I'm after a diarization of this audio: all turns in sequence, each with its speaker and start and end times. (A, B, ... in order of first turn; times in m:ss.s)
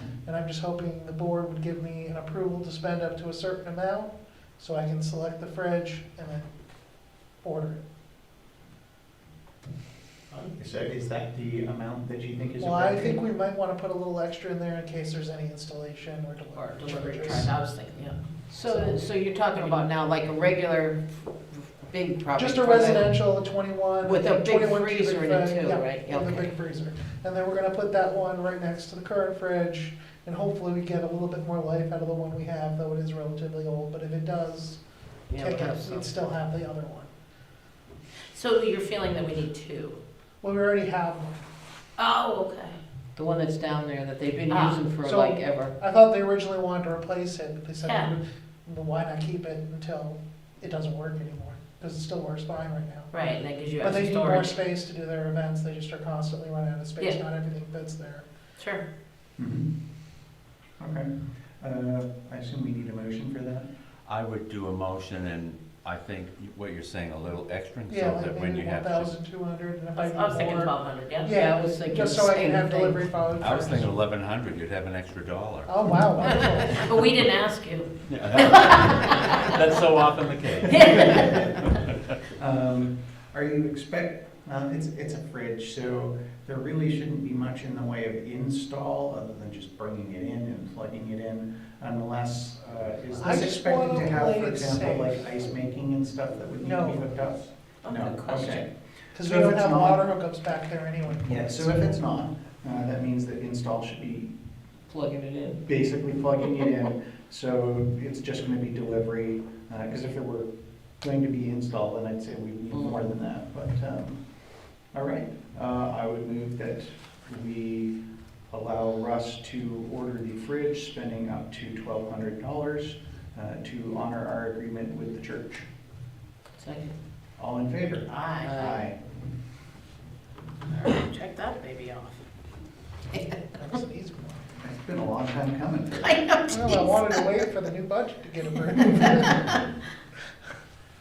0:00.2-0:06.5 A
0:07.4-0:07.8 A
0:10.3-0:13.2 B
0:12.6-0:17.5 A
0:16.6-0:18.2 C
0:18.5-0:19.8 A
0:18.5-0:23.2 D
0:22.3-0:37.1 A
0:24.0-0:26.5 D
0:25.8-0:26.3 C
0:35.3-0:36.0 D
0:38.3-0:40.0 C
0:40.4-0:41.3 A
0:42.0-0:42.8 C
0:43.2-0:45.7 D
0:44.5-0:44.8 C
0:45.0-0:53.1 A
0:47.8-0:48.1 C
0:53.1-0:54.6 C
0:53.8-0:58.3 A
0:58.6-0:58.8 C
0:59.4-0:59.7 B
1:00.8-1:03.7 B
1:04.1-1:09.2 E
1:07.9-1:14.0 A
1:10.0-1:11.4 C
1:11.4-1:13.0 D
1:13.4-1:16.6 E
1:15.7-1:17.0 A
1:16.2-1:19.6 C
1:18.1-1:21.8 E
1:20.7-1:21.6 C
1:20.8-1:21.4 B
1:22.3-1:40.1 B
1:33.2-1:35.3 A
1:36.6-1:37.0 C
1:37.8-1:38.6 C
1:39.1-1:42.0 A
1:41.2-1:44.3 B
1:44.9-1:45.6 D
1:45.6-1:50.5 B
1:51.0-1:54.2 B
1:52.7-1:53.0 D
1:54.9-1:58.0 B
1:58.5-2:05.7 B
2:06.6-2:07.0 D
2:07.4-2:09.0 B
2:08.1-2:08.6 C
2:08.4-2:08.8 D
2:10.7-2:12.2 C
2:13.1-2:14.5 A
2:14.6-2:16.2 B
2:16.0-2:17.2 C
2:16.5-2:19.7 A
2:18.7-2:19.5 C